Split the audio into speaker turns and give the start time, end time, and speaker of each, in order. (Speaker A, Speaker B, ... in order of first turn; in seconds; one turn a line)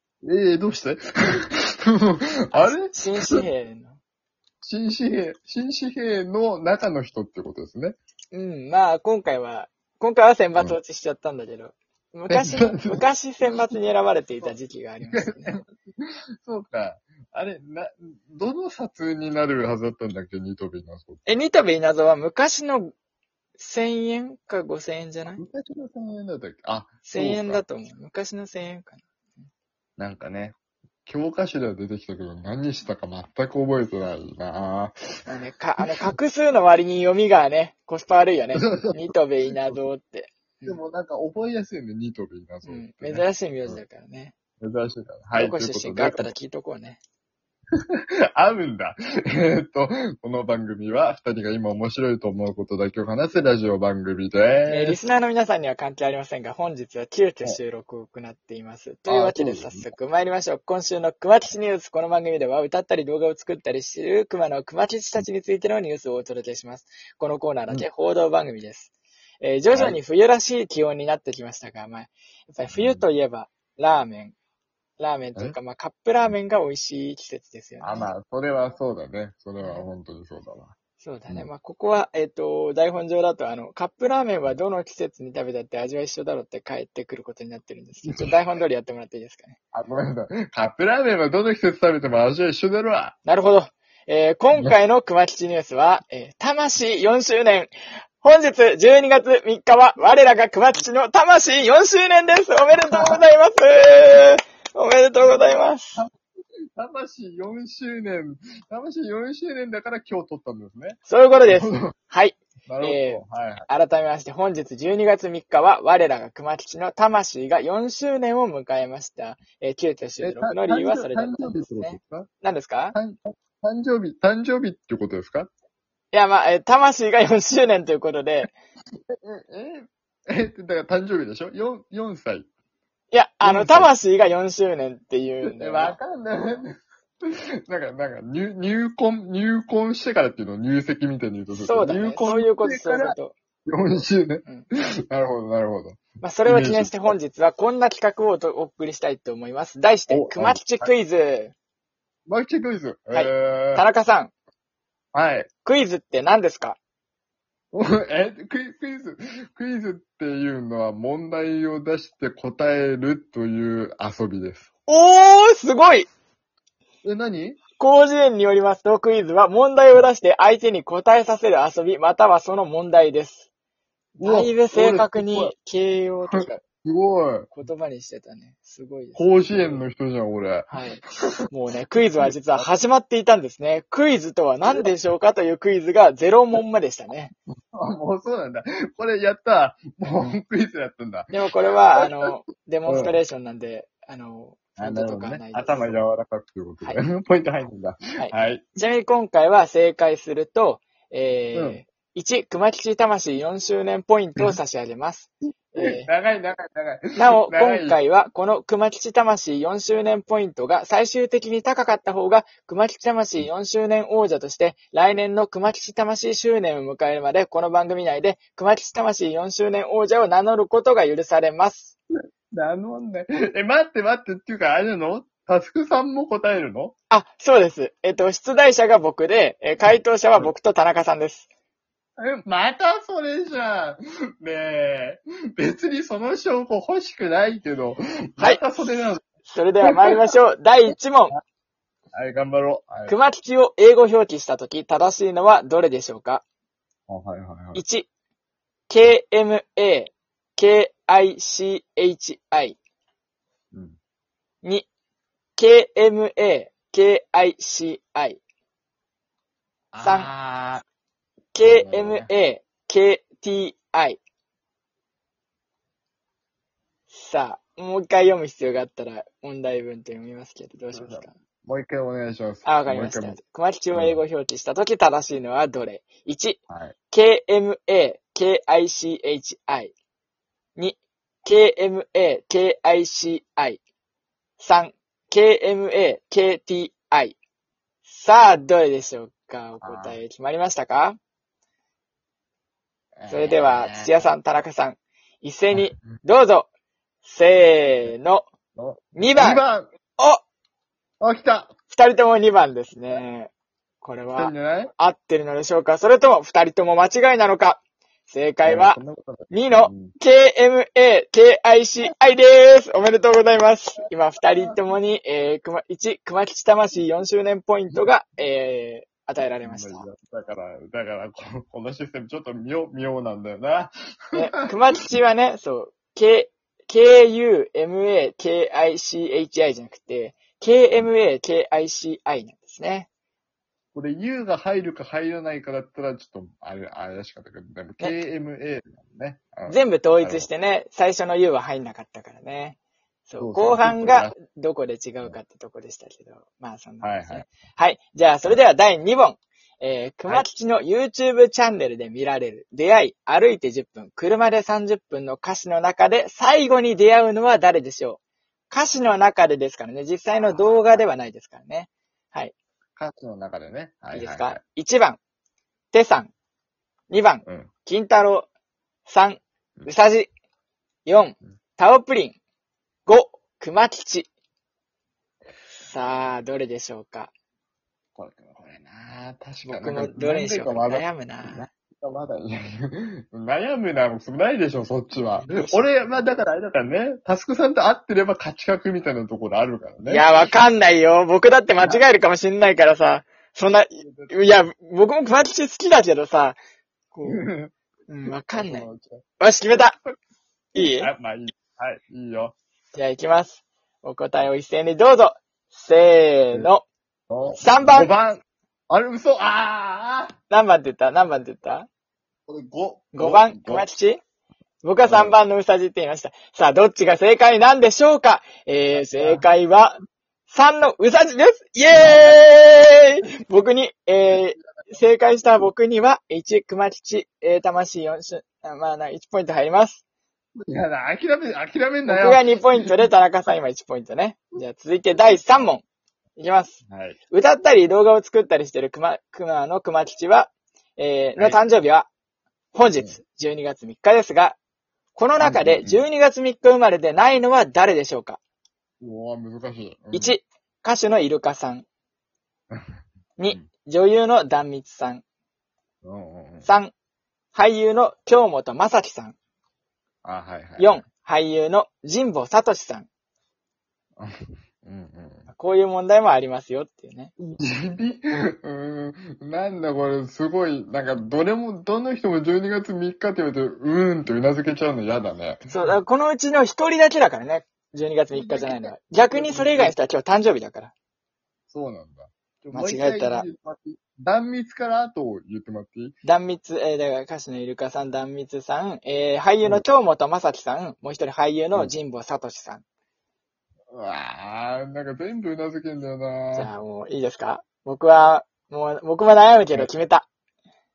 Speaker A: 0.2-3.4
Speaker B: 2.5-4.0
Speaker A: 4.6-8.0
Speaker B: 8.3-15.6
Speaker A: 12.3-13.0
Speaker A: 15.0-21.2
Speaker B: 21.2-22.9
Speaker B: 23.6-25.4
Speaker A: 25.4-27.6
Speaker B: 27.0-29.0
Speaker A: 30.0-34.9
Speaker B: 35.3-40.8
Speaker A: 38.5-39.8
Speaker A: 40.6-43.8
Speaker B: 42.6-44.3
Speaker A: 44.6-46.3
Speaker B: 45.3-47.0
Speaker A: 48.4-55.0
Speaker B: 54.7-68.9
Speaker A: 59.1-59.9
Speaker B: 69.4-74.3
Speaker A: 69.7-70.0
Speaker A: 72.7-73.0
Speaker B: 75.0-78.1
Speaker A: 77.8-80.7
Speaker B: 79.6-79.8
Speaker B: 81.0-89.5
Speaker A: 88.0-88.4
Speaker A: 89.7-93.2
Speaker B: 93.2-106.0
Speaker A: 102.8-103.2
Speaker A: 105.2-106.1
Speaker A: 106.8-111.9
Speaker B: 111.1-123.0
Speaker A: 112.7-113.7
Speaker A: 120.2-122.3
Speaker A: 122.9-125.5
Speaker B: 126.1-128.5
Speaker A: 129.2-132.5
Speaker B: 133.1-136.0
Speaker A: 133.4-133.9
Speaker A: 135.4-144.5
Speaker B: 141.5-143.3
Speaker A: 145.1-147.1
Speaker B: 146.2-151.5
Speaker A: 150.1-150.9
Speaker A: 152.3-153.8
Speaker B: 153.1-154.3
Speaker A: 155.1-155.5
Speaker B: 155.7-156.8
Speaker A: 157.7-164.7
Speaker B: 164.9-166.1
Speaker A: 167.0-167.6
Speaker B: 167.8-173.5
Speaker A: 174.2-175.5
Speaker B: 174.2-176.6
Speaker A: 176.3-177.5
Speaker B: 177.5-179.8
Speaker A: 179.1-180.7
Speaker B: 180.7-187.3
Speaker A: 182.2-182.6
Speaker A: 187.7-191.3
Speaker B: 191.3-195.9
Speaker A: 192.9-193.2
Speaker A: 194.8-198.7
Speaker B: 198.2-206.1
Speaker A: 201.5-201.8
Speaker A: 205.8-208.0
Speaker B: 207.2-221.9
Speaker A: 222.5-226.9
Speaker B: 227.1-231.5
Speaker A: 232.2-239.2
Speaker B: 238.4-241.3
Speaker A: 239.8-240.2
Speaker A: 242.1-243.2
Speaker B: 243.1-246.4
Speaker A: 247.1-247.8
Speaker B: 247.7-248.1
Speaker B: 248.9-252.8
Speaker B: 254.6-254.9
Speaker B: 255.6-258.4
Speaker A: 259.9-260.8
Speaker B: 260.0-260.3
Speaker B: 261.5-264.2
Speaker A: 261.6-262.3
Speaker B: 267.1-271.3
Speaker A: 270.9-273.4
Speaker B: 272.6-276.6
Speaker A: 273.9-274.2
Speaker A: 276.7-276.9
Speaker B: 277.1-279.9
Speaker B: 280.8-283.8
Speaker B: 284.6-287.4
Speaker B: 288.1-291.2
Speaker A: 289.8-290.2
Speaker A: 293.2-294.2
Speaker B: 293.3-296.7
Speaker A: 295.7-296.2
Speaker B: 297.2-298.4
Speaker A: 298.8-299.9
Speaker B: 299.1-299.6
Speaker B: 300.2-300.4
Speaker A: 301.2-301.7
Speaker B: 301.9-303.5
Speaker B: 304.0-309.0
Speaker A: 304.3-304.9
Speaker A: 308.6-310.1
Speaker B: 309.5-320.1
Speaker A: 319.4-324.4
Speaker B: 324.3-333.1
Speaker A: 333.9-340.5
Speaker B: 339.7-342.8
Speaker B: 343.3-358.2
Speaker A: 343.4-344.4
Speaker A: 347.0-347.5
Speaker B: 358.7-362.5
Speaker A: 362.9-364.6
Speaker B: 364.1-365.2
Speaker B: 365.9-366.3
Speaker B: 367.1-368.5
Speaker B: 369.1-370.3
Speaker B: 371.1-372.4
Speaker B: 373.1-374.3
Speaker B: 375.8-377.3
Speaker A: 378.1-390.5
Speaker B: 379.6-381.6
Speaker B: 385.4-385.9
Speaker B: 390.1-396.6
Speaker A: 394.0-394.5
Speaker B: 397.1-397.4
Speaker A: 397.2-397.7
Speaker B: 398.1-398.9
Speaker A: 398.3-400.2
Speaker B: 399.4-399.9
Speaker B: 400.7-401.1
Speaker A: 400.8-402.5
Speaker B: 402.9-406.8
Speaker A: 407.3-410.3
Speaker B: 407.6-408.1
Speaker B: 410.5-411.9
Speaker A: 412.5-413.9
Speaker B: 413.1-414.2
Speaker B: 414.8-420.0
Speaker A: 415.1-415.4
Speaker A: 418.9-419.4
Speaker B: 420.5-430.0
Speaker A: 421.9-422.4
Speaker A: 424.2-425.0
Speaker A: 430.6-432.9
Speaker B: 432.1-435.8
Speaker B: 436.4-436.8
Speaker A: 436.9-437.2
Speaker B: 437.3-442.1
Speaker B: 442.7-444.6
Speaker B: 445.1-448.4
Speaker A: 445.4-446.0
Speaker A: 449.0-450.4
Speaker B: 450.1-451.9
Speaker B: 453.4-455.2
Speaker A: 456.0-456.7
Speaker B: 456.6-456.9
Speaker B: 457.5-459.4
Speaker A: 460.2-461.0
Speaker B: 460.8-463.1
Speaker A: 464.2-465.5
Speaker B: 465.5-467.3
Speaker A: 467.4-475.9
Speaker B: 475.7-480.9
Speaker A: 478.3-480.0
Speaker A: 481.7-486.2
Speaker B: 482.7-483.4
Speaker B: 486.2-492.8
Speaker A: 493.9-496.7
Speaker B: 496.5-500.3